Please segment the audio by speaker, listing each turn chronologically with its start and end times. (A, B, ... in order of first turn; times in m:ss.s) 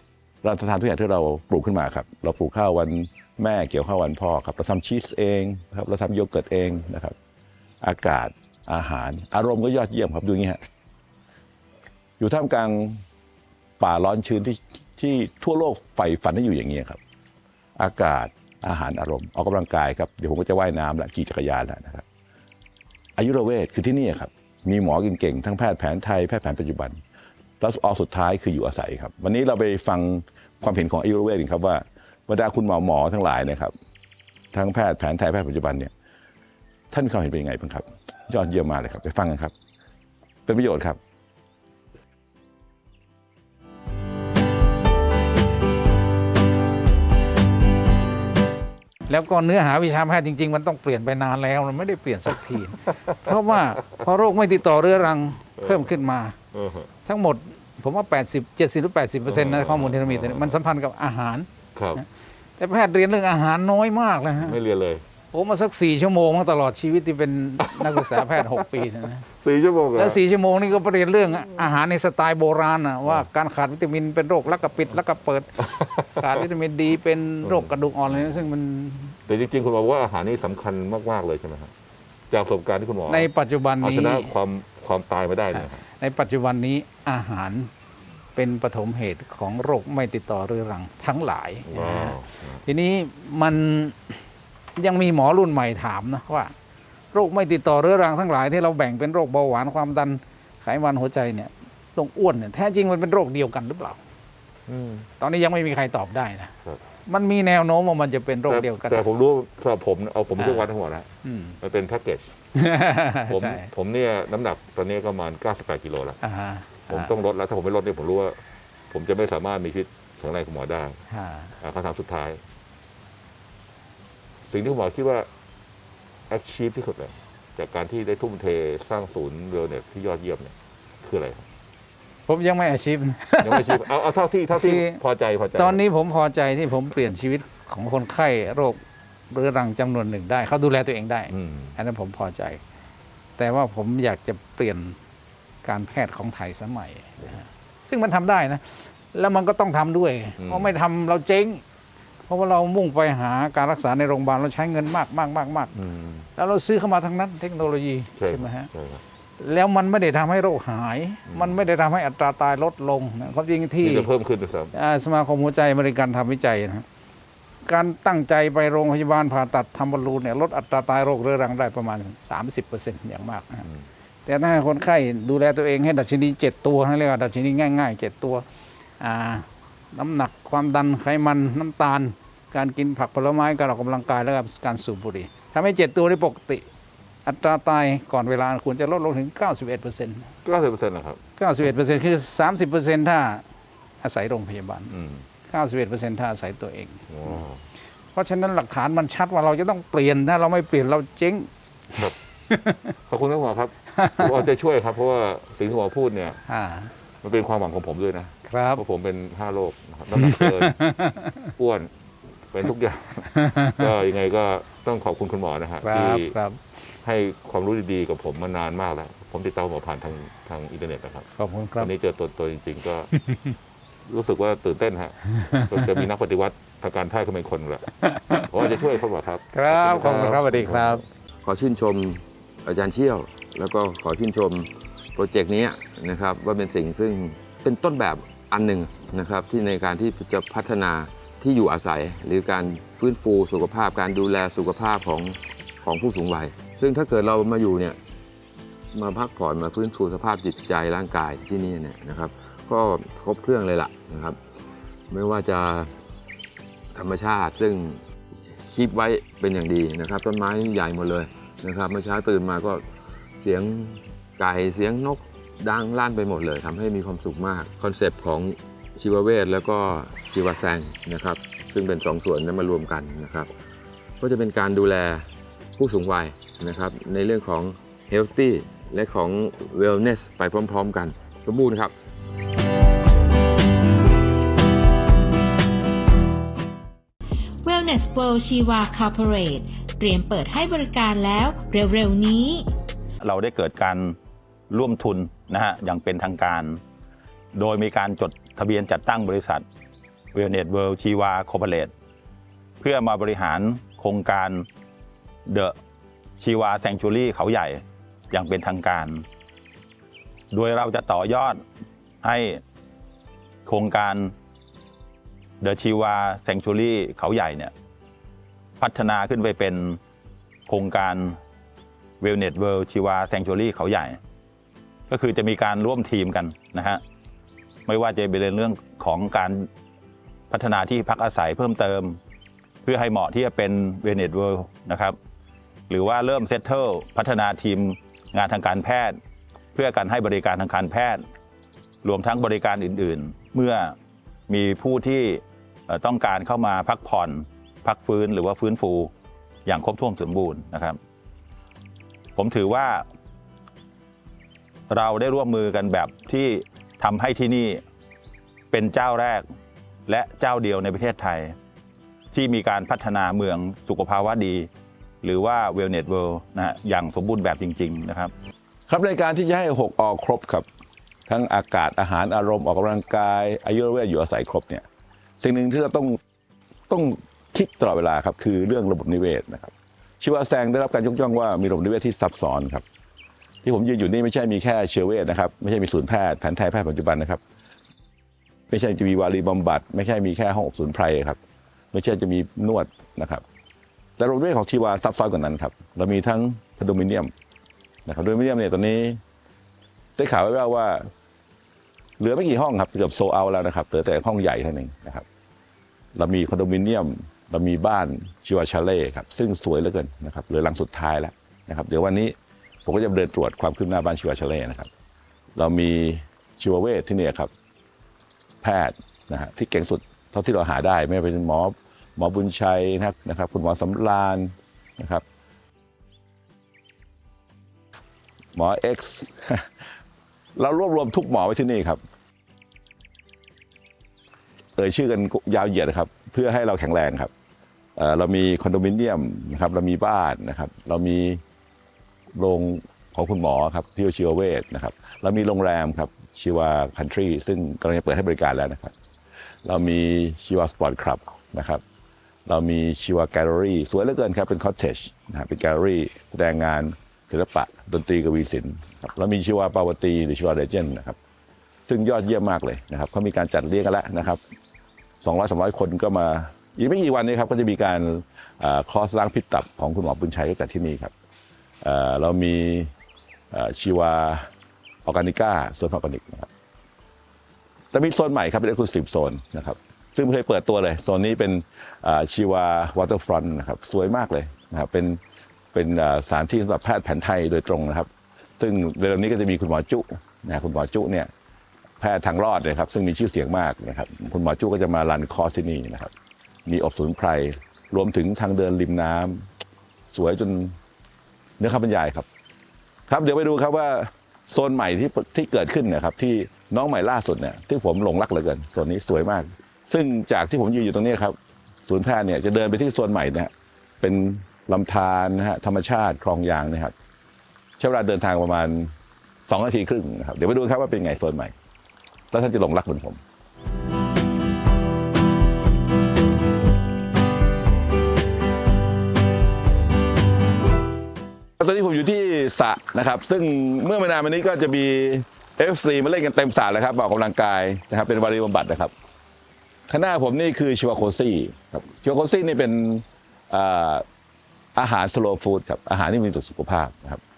0:00.4-0:07.2 A
0:07.8-0:10.6 A
0:12.2-0:13.0 A
0:13.8-0:17.0 A
0:17.8-0:22.0 A
0:23.2-0:27.0 A
0:27.6-0:33.7 A
0:34.5-0:35.9 A
0:36.9-0:39.5 A
0:40.5-0:41.0 A
0:49.1-0:56.4 B
0:55.6-0:56.0 C
0:56.5-0:56.9 C
0:57.0-1:02.0 B
0:59.3-1:00.6 C
1:01.8-1:02.0 C
1:02.6-1:04.6 B
1:04.4-1:05.0 C
1:05.3-1:09.2 B
1:09.4-1:10.2 C
1:10.0-1:15.6 B
1:15.6-1:16.4 C
1:16.1-1:19.2 B
1:17.4-1:18.3 C
1:19.3-1:21.7 C
1:22.3-1:25.8 C
1:23.1-1:24.4 B
1:25.5-1:27.7 B
1:28.4-1:34.2 B
1:31.7-1:32.6 C
1:34.8-1:36.5 B
1:37.1-1:44.0 B
1:44.7-1:45.0 C
1:45.2-1:46.5 B
1:47.1-1:49.0 B
1:48.5-1:52.3 C
1:50.4-1:50.7 B
1:51.2-1:51.6 B
1:52.6-1:53.7 B
1:53.3-1:56.2 C
1:56.2-1:57.1 B
1:56.9-1:58.4 C
1:58.9-2:01.0 C
2:01.1-2:01.6 B
2:01.6-2:02.4 C
2:04.5-2:05.3 C
2:06.3-2:11.5 C
2:12.3-2:13.9 B
2:13.4-2:15.8 C
2:14.5-2:15.0 B
2:15.6-2:22.6 B
2:21.3-2:21.7 C
2:23.4-2:25.0 B
2:25.6-2:31.6 B
2:30.4-2:30.7 C
2:32.3-2:35.7 B
2:35.8-2:36.3 C
2:36.4-2:38.7 B
2:38.2-2:39.0 C
2:39.4-2:44.1 B
2:41.3-2:41.6 C
2:43.8-2:44.7 C
2:44.7-2:46.9 B
2:47.6-2:53.6 B
2:54.2-2:58.5 B
2:59.0-3:06.7 B
3:07.2-3:10.3 B
3:10.4-3:11.2 C
3:11.4-3:13.4 B
3:14.0-3:14.9 B
3:14.9-3:15.3 C
3:15.5-3:17.4 B
3:17.1-3:17.6 C
3:18.1-3:21.5 B
3:22.5-3:22.8 B
3:23.0-3:26.4 C
3:24.0-3:24.3 B
3:26.5-3:26.9 B
3:27.2-3:30.8 C
3:28.4-3:28.8 B
3:30.2-3:31.4 B
3:31.6-3:31.9 C
3:32.5-3:36.3 C
3:35.8-3:36.6 B
3:37.0-3:41.3 C
3:41.3-3:41.9 B
3:41.8-3:43.1 C
3:44.1-3:51.1 C
3:48.0-3:48.4 B
3:49.5-3:51.0 B
3:51.4-4:08.0 D
4:08.9-4:14.4 D
4:15.1-4:16.0 D
4:16.9-4:22.9 D
4:23.4-4:33.5 D
4:34.2-4:41.9 D
4:47.6-4:52.7 E
4:53.2-4:54.2 F
4:54.7-4:56.8 F
4:57.5-4:59.6 F
5:00.3-5:01.9 F
5:02.8-5:04.7 F
5:05.5-5:05.8 F
5:06.4-5:09.2 F
5:10.5-5:11.6 F
5:12.2-5:12.6 F
5:13.7-5:14.3 F
5:15.6-5:17.7 F
5:18.8-5:20.0 F
5:20.7-5:21.4 F
5:22.2-5:24.2 F
5:25.1-5:27.0 F
5:27.9-5:29.7 F
5:30.5-5:32.2 F
5:32.8-5:35.2 F
5:35.9-5:39.2 F
5:39.8-5:41.2 F
5:42.0-5:44.0 F
5:44.5-5:49.1 F
5:49.7-5:51.0 F
5:52.4-5:53.0 F
5:54.9-5:57.8 F
5:58.7-5:59.4 F
6:00.1-6:01.6 F
6:02.3-6:04.7 F
6:05.2-6:08.3 F
6:08.9-6:10.7 A
6:11.3-6:14.8 A
6:15.4-6:16.2 A
6:16.9-6:22.8 A
6:23.6-6:27.4 A
6:28.7-6:31.4 A
6:31.9-6:33.4 A
6:34.2-6:37.3 A
6:38.1-6:39.2 A
6:40.2-6:41.1 A
6:42.2-6:45.3 A
6:46.2-6:52.3 A
6:52.9-6:54.9 A
6:55.6-6:57.5 A
6:58.6-7:05.2 A
7:08.6-7:09.7 A
7:10.6-7:12.0 A
7:14.8-7:17.3 A
7:18.0-7:21.4 A
7:22.4-7:28.9 A
7:29.6-7:31.8 A
7:32.5-7:41.2 A
7:41.9-7:44.4 A
7:45.2-7:51.1 A
7:51.8-7:52.9 A
7:53.5-7:54.5 A
7:55.0-7:56.5 A
7:57.9-8:05.2 A
8:05.7-8:11.3 A
8:12.0-8:16.1 A
8:16.7-8:19.4 A
8:20.1-8:20.8 A
8:21.6-8:22.3 A
8:23.1-8:31.4 A
8:31.9-8:36.9 A
8:37.8-8:38.9 A
8:39.5-8:41.5 A
8:42.3-8:43.2 A
8:51.6-8:58.9 A
8:59.9-9:04.0 A
9:04.8-9:07.2 A